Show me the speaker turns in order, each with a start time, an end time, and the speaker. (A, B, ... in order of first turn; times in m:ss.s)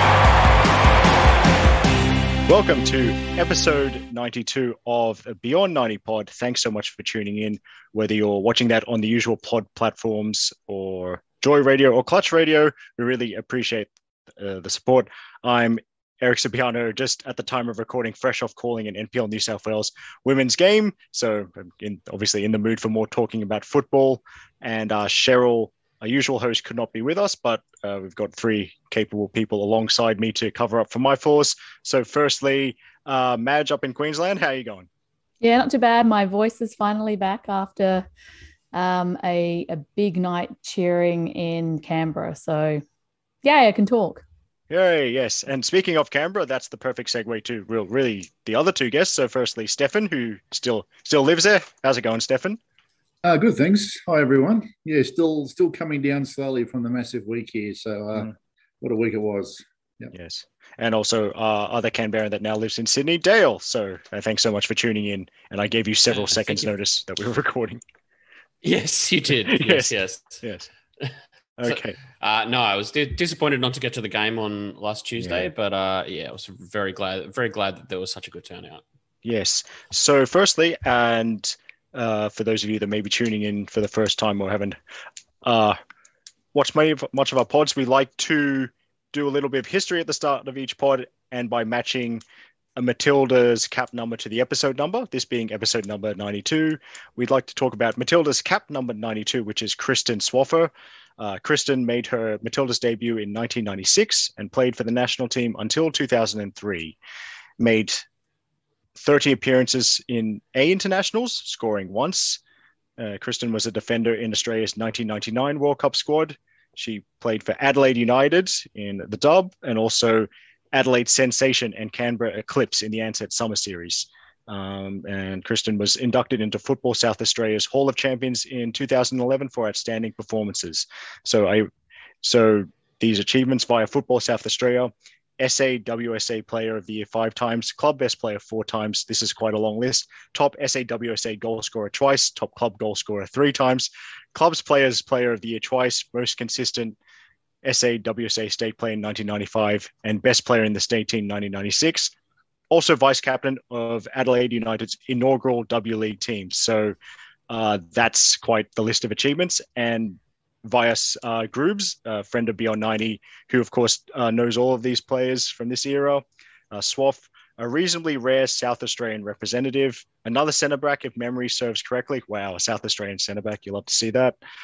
0:02.5-0:34.9 A
0:35.4-0:38.1 B
0:38.7-0:42.8 B
0:43.4-0:44.2 B
0:44.7-0:52.6 A
0:53.2-1:00.1 C
1:00.1-1:07.8 A
1:06.1-1:06.7 D
1:08.6-1:10.4 D
1:09.5-1:10.7 A
1:11.6-1:12.0 A
1:11.7-1:18.8 D
1:15.2-1:15.5 A
1:19.2-1:24.8 A
1:25.4-1:25.8 A
1:26.5-1:32.2 A
1:32.8-1:47.0 A
1:47.6-1:48.0 A
1:49.0-1:52.4 A
1:53.0-2:11.7 A
2:12.2-2:27.0 A
2:27.6-2:32.1 A
2:32.7-2:37.0 A
2:37.5-2:54.4 A